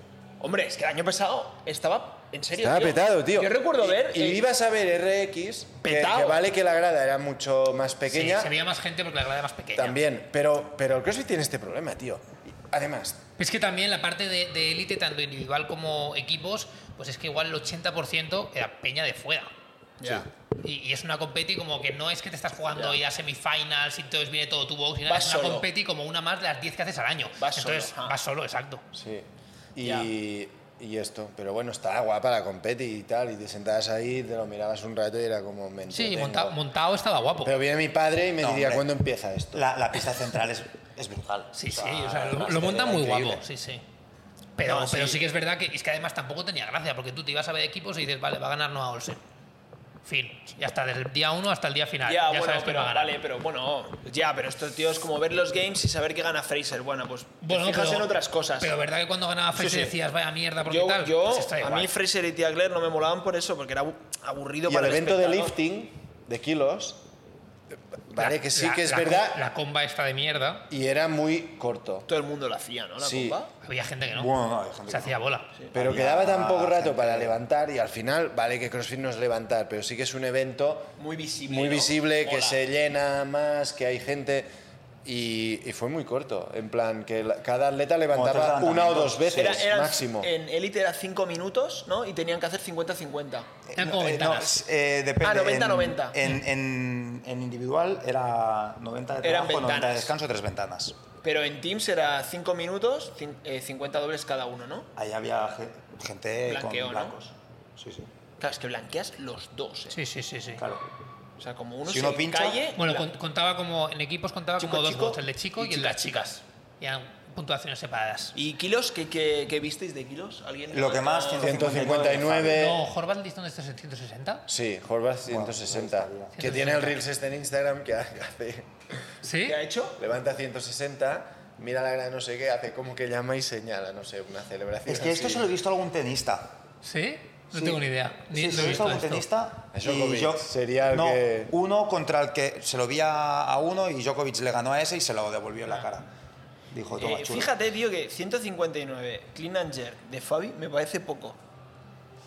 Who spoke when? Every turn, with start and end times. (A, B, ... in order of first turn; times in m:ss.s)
0:00.4-0:04.4 A
0:02.6-0:08.5 B
0:05.8-0:06.4 A
0:08.1-0:10.0 C
0:09.8-0:13.2 B
0:13.4-0:19.5 C
0:20.0-0:20.3 A
0:20.6-0:28.8 C
0:25.0-0:25.7 A
0:27.4-0:28.2 A
0:28.9-0:36.6 B
0:29.8-0:30.1 A
0:35.9-0:37.6 C
0:37.4-0:39.7 B
0:38.4-0:38.9 D
0:39.5-0:43.4 D
0:41.5-0:43.8 C
0:44.6-0:49.2 C
0:44.6-0:45.2 A
0:50.0-0:53.1 C
0:52.0-0:58.7 A
0:57.4-1:01.9 C
0:59.5-0:59.9 A
1:00.6-1:05.6 A
1:04.6-1:07.0 B
1:08.1-1:09.4 B
1:08.2-1:10.7 C
1:10.7-1:12.1 B
1:12.1-1:13.5 A
1:13.0-1:13.4 B
1:13.6-1:14.3 C
1:14.1-1:15.2 D
1:14.9-1:15.5 C
1:15.7-1:17.4 D
1:15.7-1:20.9 B
1:21.0-1:22.6 A
1:21.5-1:24.5 B
1:25.0-1:30.3 B
1:28.1-1:29.6 D
1:29.3-1:33.5 A
1:33.7-1:41.0 D
1:33.8-1:34.6 C
1:35.2-1:36.2 A
1:39.2-1:40.1 A
1:41.2-1:44.9 A
1:44.9-1:48.1 D
1:46.4-1:47.2 A
1:48.4-1:50.0 A
1:49.9-1:50.6 C
1:50.6-1:50.8 D
1:51.4-1:53.1 A
1:51.8-1:52.7 D
1:52.8-1:58.4 C
1:54.6-1:56.2 A
1:58.3-2:02.1 A
2:00.7-2:02.6 D
2:01.4-2:02.8 B
2:02.5-2:04.4 C
2:04.5-2:09.1 B
2:05.3-2:06.6 D
2:06.3-2:07.0 C
2:09.2-2:09.6 C
2:09.4-2:10.0 A
2:10.0-2:15.5 B
2:14.8-2:16.5 D
2:16.8-2:19.2 C
2:17.5-2:26.1 D
2:19.7-2:21.5 B
2:26.7-2:27.5 D
2:27.0-2:31.4 A